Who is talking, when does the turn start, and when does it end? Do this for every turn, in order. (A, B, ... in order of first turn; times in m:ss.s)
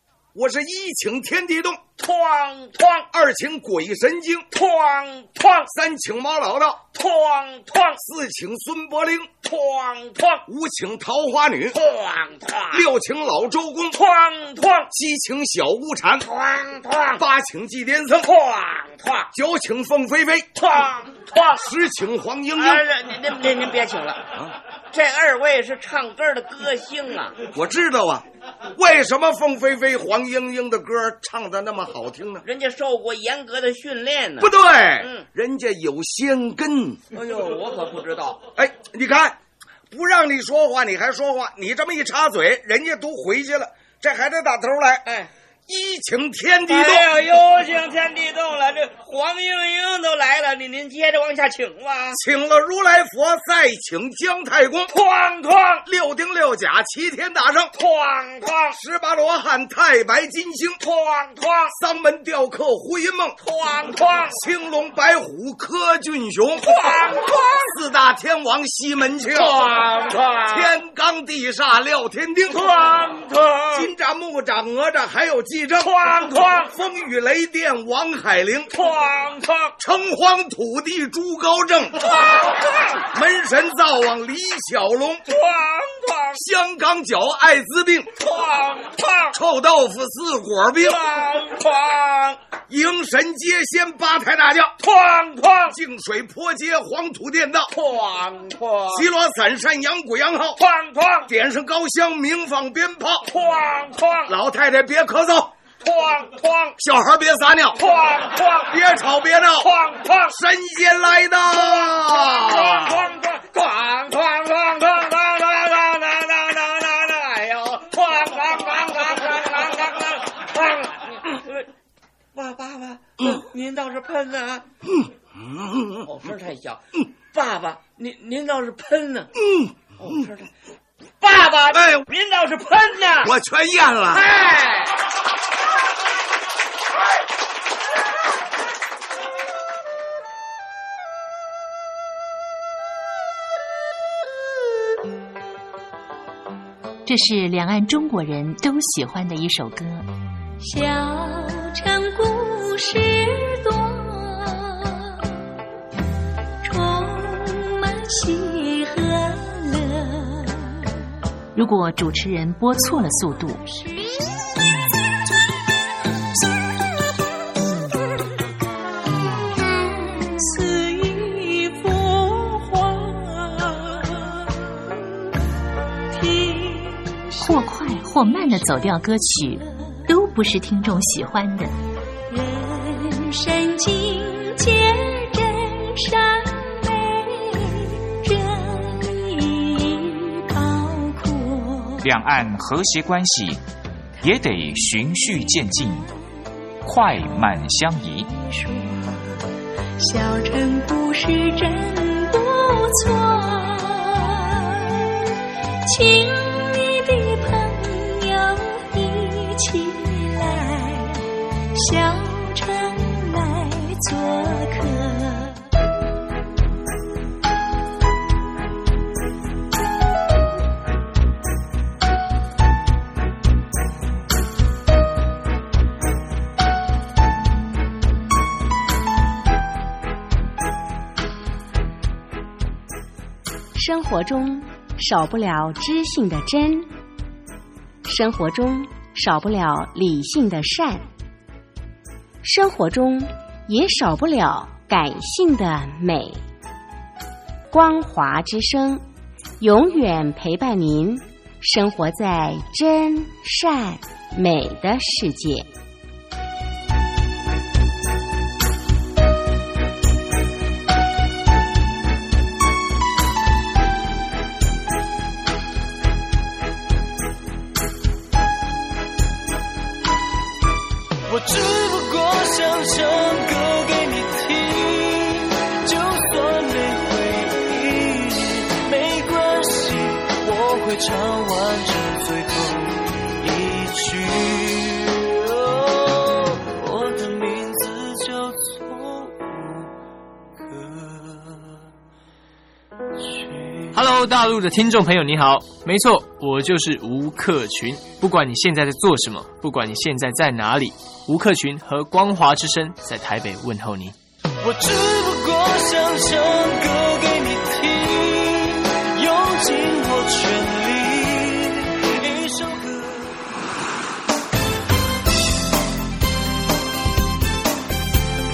0:00.3-0:01.8 A
0:02.0-0:03.1 B
0:03.1-0:04.5 A
0:04.5-0:05.7 B
0:05.7-0:06.8 A
0:06.9-0:08.0 B
0:08.0-0:09.3 A
0:09.4-0:10.4 B
0:10.5-0:11.8 A
0:11.7-0:12.8 B
0:12.7-0:14.0 A
0:13.9-0:14.9 B
0:14.9-0:16.3 A
0:16.2-0:17.2 B
0:17.2-0:18.3 A
0:18.2-0:19.3 B
0:19.3-0:20.5 A
0:20.6-0:21.6 B
0:21.5-0:22.8 A
0:22.6-0:24.3 B
0:24.9-0:27.4 B
0:27.5-0:32.4 A
0:32.4-0:35.2 B
0:34.4-0:37.0 A
0:37.1-0:38.4 B
0:38.5-0:45.0 A
0:45.0-0:45.3 B
0:45.7-0:47.1 A
0:46.7-0:52.2 B
0:52.1-0:54.9 A
0:54.9-0:55.8 B
0:55.8-0:57.7 A
0:57.7-0:58.8 B
0:58.7-1:00.8 A
1:00.8-1:01.7 B
1:01.7-1:03.4 A
1:03.4-1:04.4 B
1:04.3-1:07.0 A
1:06.6-1:07.7 B
1:07.6-1:09.7 A
1:09.3-1:10.7 B
1:10.5-1:12.6 A
1:12.5-1:13.9 B
1:13.7-1:15.9 A
1:15.8-1:16.7 B
1:16.7-1:18.7 A
1:18.7-1:19.7 B
1:19.8-1:22.0 A
1:22.0-1:23.0 B
1:23.0-1:25.2 A
1:25.3-1:26.4 B
1:26.3-1:28.1 A
1:28.2-1:29.4 B
1:29.3-1:31.0 A
1:30.8-1:32.4 B
1:32.7-1:34.8 A
1:34.8-1:35.8 B
1:35.7-1:37.7 A
1:37.7-1:39.0 B
1:38.9-1:40.6 A
1:40.6-1:41.3 B
1:41.3-1:43.3 A
1:43.2-1:44.3 B
1:44.2-1:45.5 A
1:45.8-1:46.8 B
1:46.8-1:47.8 A
1:47.8-1:48.7 B
1:48.6-1:49.7 A
1:49.6-1:50.3 B
1:50.3-1:53.0 A
1:51.5-2:01.7 B
2:02.3-2:04.6 B
2:04.8-2:06.1 A
2:06.0-2:09.3 B
2:09.4-2:10.2 A
2:10.0-2:10.5 B
2:11.2-2:13.3 B
2:11.7-2:12.0 A
2:13.2-2:14.2 A
2:14.1-2:15.0 B
2:27.0-2:30.0 C
2:30.6-2:35.3 D
2:36.6-2:40.9 D
2:41.5-2:43.6 C
2:49.7-2:54.8 D
2:56.1-2:57.6 D
2:57.4-3:01.7 C
3:02.3-3:12.1 D
3:12.0-3:13.6 E
3:14.2-3:16.1 E
3:16.8-3:18.3 E
3:18.4-3:19.3 D
3:20.0-3:25.2 D
3:25.8-3:35.6 D
3:53.7-3:56.9 F
3:58.0-4:01.0 F
4:02.4-4:06.4 F
4:07.7-4:09.0 F
4:09.6-4:15.7 F
4:31.3-4:49.9 G
4:50.6-4:51.7 G
4:53.3-4:53.8 G
4:53.9-5:04.1 H
5:04.6-5:13.4 G